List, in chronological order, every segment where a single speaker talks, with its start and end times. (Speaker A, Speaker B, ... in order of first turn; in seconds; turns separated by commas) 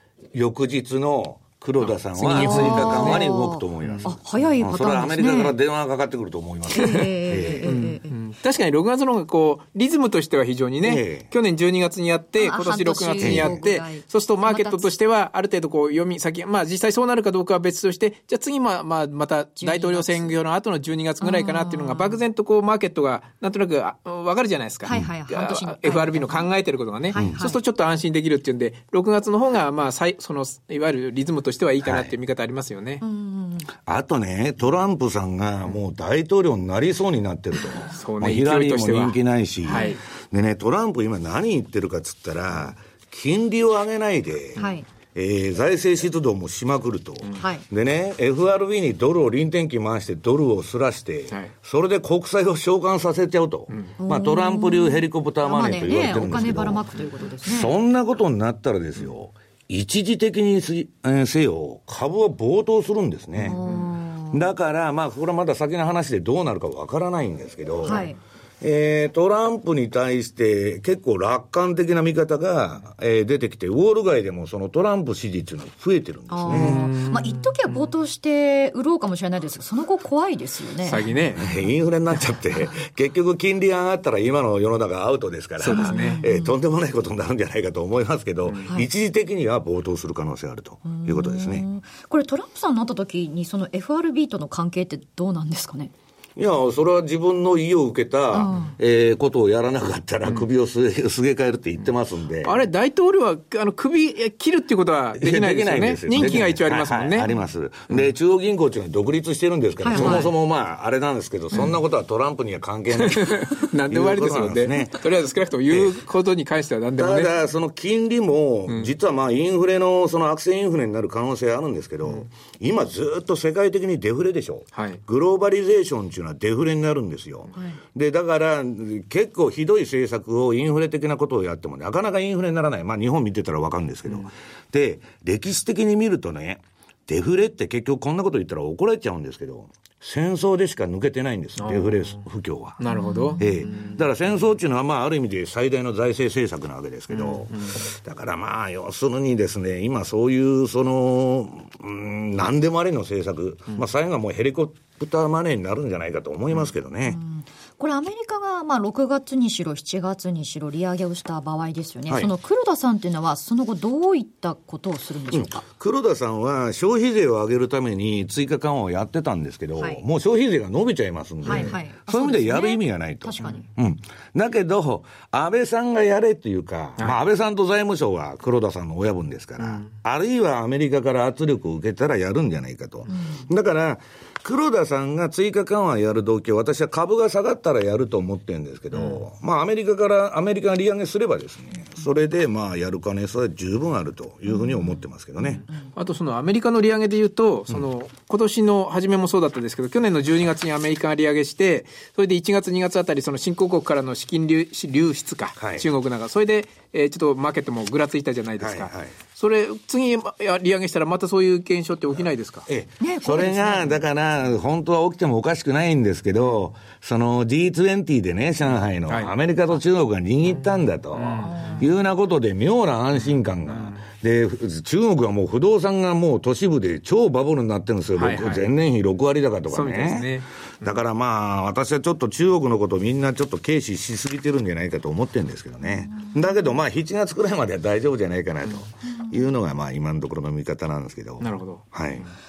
Speaker A: 0.3-7.8, Speaker B: 1.8-3.3, Speaker C: 2.4-5.6, Speaker C: 6.7-8.2, Speaker B: 6.8-33.0, Speaker A: 10.8-11.3, Speaker C: 12.4-14.9, Speaker A: 13.2-13.6, Speaker C: 19.6-20.4, Speaker C: 21.2-22.2, Speaker C: 24.9-26.5, Speaker C: 27.1-27.6, Speaker A: 27.1-27.4, Speaker A: 31.8-32.1, Speaker C: 33.0-33.7, Speaker A: 33.9-44.6, Speaker B: 37.8-39.9, Speaker C: 39.7-40.0, Speaker C: 44.6-44.9, Speaker A: 45.1-56.9, Speaker C: 47.4-47.6, Speaker C: 54.0-57.7, Speaker A: 57.4-63.6, Speaker C: 63.4-64.5, Speaker A: 64.3-68.1, Speaker C: 67.8-68.2, Speaker A: 68.6-76.9, Speaker C: 76.3-81.1, Speaker B: 76.5-77.5, Speaker B: 80.8-81.5, Speaker A: 81.3-91.7, Speaker B: 85.6-86.2, Speaker C: 85.7-86.5, Speaker C: 90.8-95.9, Speaker A: 96.4-102.6, Speaker C: 98.3-98.7, Speaker B: 102.4-107.3, Speaker A: 105.2-115.0, Speaker C: 109.8-110.3, Speaker B: 109.9-110.3, Speaker B: 113.0-117.3, Speaker A: 115.7-116.0, Speaker A: 117.0-142.8, Speaker B: 124.8-125.0, Speaker B: 141.6-142.2, Speaker B: 142.8-143.9, Speaker C: 142.9-143.5, Speaker A: 143.4-157.2, Speaker B: 147.1-147.8, Speaker C: 157.1-165.6, Speaker A: 165.3-195.7, Speaker C: 171.4-173.7, Speaker B: 179.6-179.9, Speaker C: 183.1-183.4, Speaker B: 195.9-212.7, Speaker A: 205.6-205.9, Speaker A: 208.6-209.1, Speaker A: 212.7-242.3, Speaker C: 213.0-214.0, Speaker B: 219.1-219.3, Speaker B: 221.2-221.7, Speaker C: 221.4-221.9, Speaker B: 228.2-228.7, Speaker B: 229.7-230.5, Speaker B: 241.4-241.8